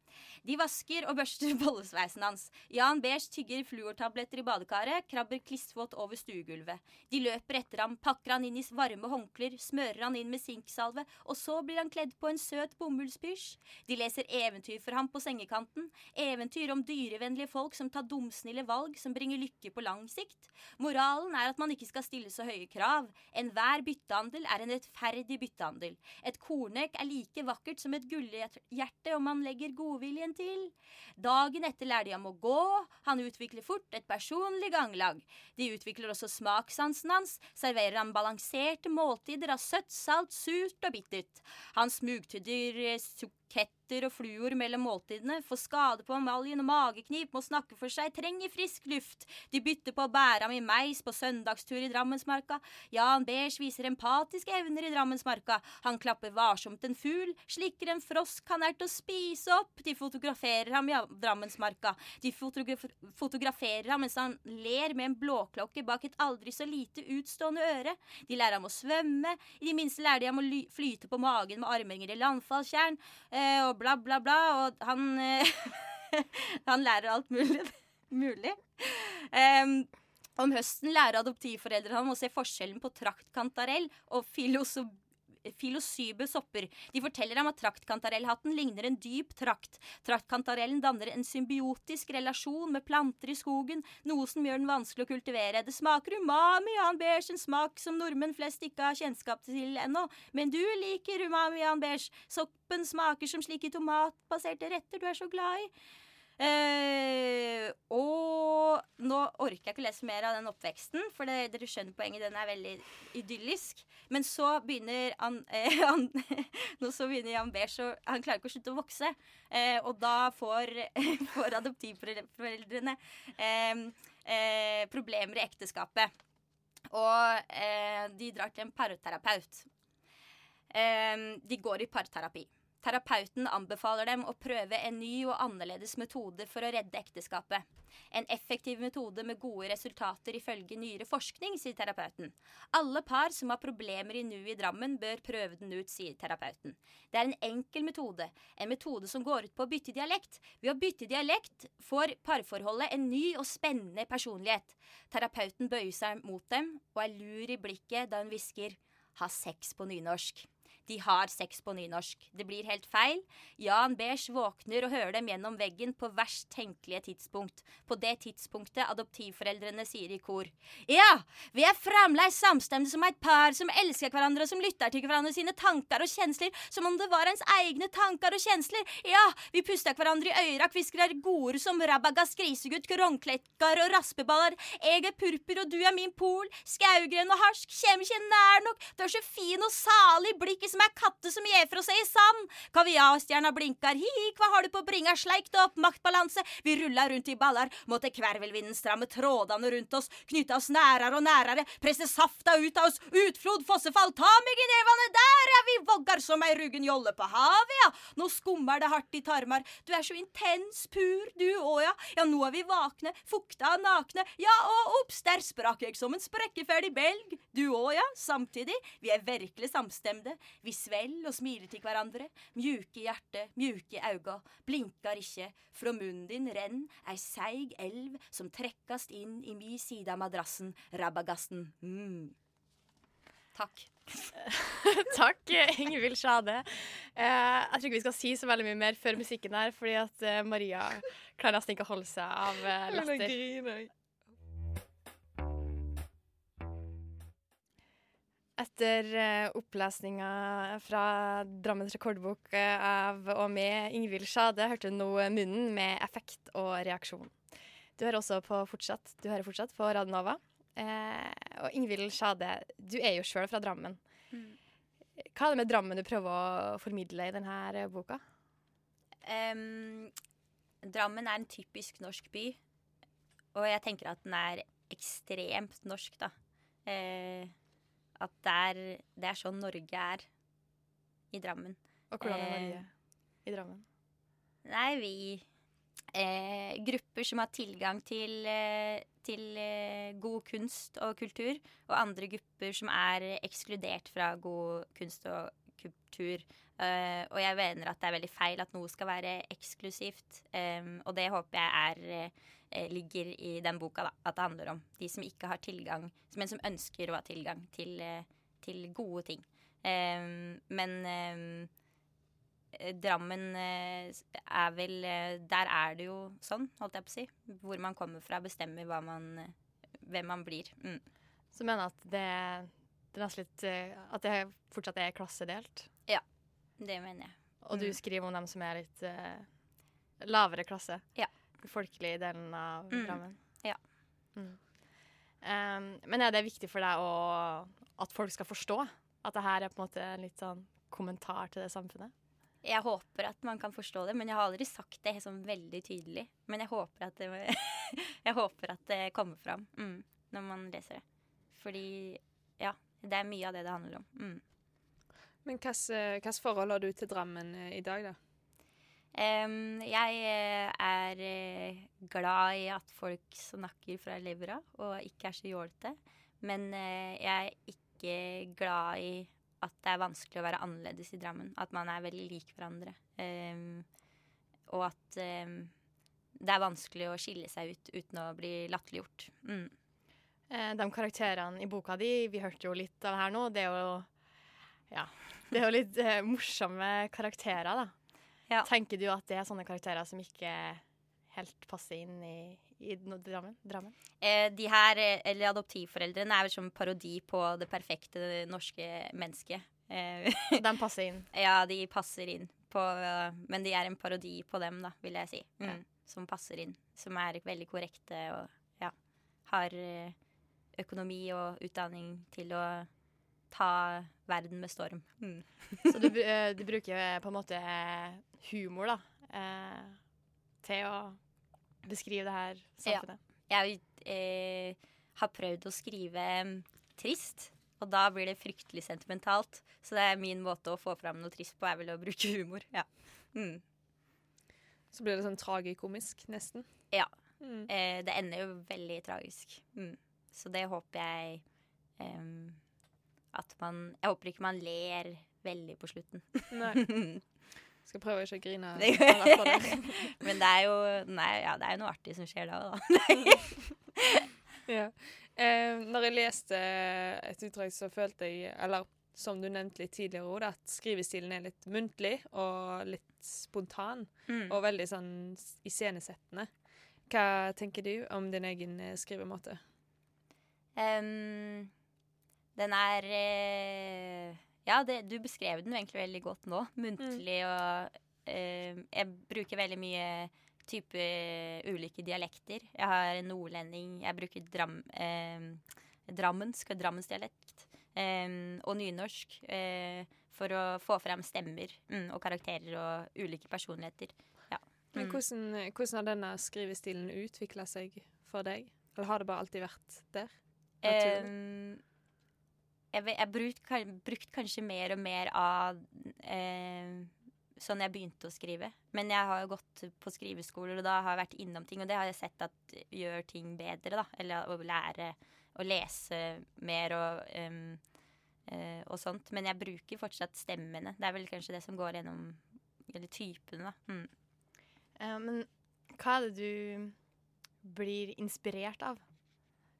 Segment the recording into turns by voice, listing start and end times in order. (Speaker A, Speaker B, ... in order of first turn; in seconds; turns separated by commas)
Speaker A: 0.4-105.7, Speaker A: 106.4-126.1, Speaker A: 126.9-129.7, Speaker A: 130.7-232.3, Speaker A: 233.5-234.3, Speaker B: 234.5-243.4, Speaker C: 242.9-243.9, Speaker B: 248.6-257.4, Speaker B: 258.0-264.0, Speaker A: 264.3-264.6, Speaker B: 265.2-268.2, Speaker A: 269.2-270.1, Speaker A: 270.8-272.6, Speaker A: 273.5-276.3, Speaker A: 276.9-277.5, Speaker A: 278.2-280.2, Speaker A: 281.3-282.8, Speaker B: 282.1-282.9, Speaker B: 283.4-283.8, Speaker A: 284.6-285.4, Speaker A: 286.1-311.7, Speaker A: 312.7-321.0, Speaker B: 321.5-325.9, Speaker A: 326.8-328.0, Speaker B: 327.6-329.4, Speaker B: 330.2-331.0, Speaker B: 331.6-333.4, Speaker A: 332.9-333.8, Speaker B: 335.4-342.1, Speaker A: 342.6-351.0, Speaker A: 351.5-354.4, Speaker C: 355.4-358.2, Speaker A: 359.1-373.9, Speaker A: 374.7-375.7, Speaker A: 376.4-379.7, Speaker B: 380.5-384.1, Speaker B: 384.9-387.9, Speaker B: 388.6-393.9, Speaker A: 394.2-400.6, Speaker B: 400.6-401.3, Speaker A: 401.3-408.9, Speaker A: 409.5-410.1, Speaker A: 410.8-412.9, Speaker A: 413.5-415.9, Speaker B: 415.9-420.0, Speaker B: 420.6-421.2, Speaker B: 421.8-423.2, Speaker A: 422.9-433.6, Speaker C: 434.9-436.7, Speaker C: 437.4-437.7, Speaker A: 437.6-441.4, Speaker A: 442.0-442.6, Speaker A: 443.3-447.2, Speaker C: 446.5-446.9, Speaker C: 447.8-450.1, Speaker A: 448.8-454.2, Speaker C: 454.7-466.5, Speaker A: 464.3-464.6, Speaker C: 467.1-469.6, Speaker A: 470.8-471.7, Speaker A: 472.6-495.2, Speaker C: 477.0-477.2, Speaker C: 494.9-501.3, Speaker A: 500.8-501.8, Speaker A: 502.9-517.8, Speaker A: 518.5-524.1, Speaker B: 525.0-526.9, Speaker B: 527.6-529.0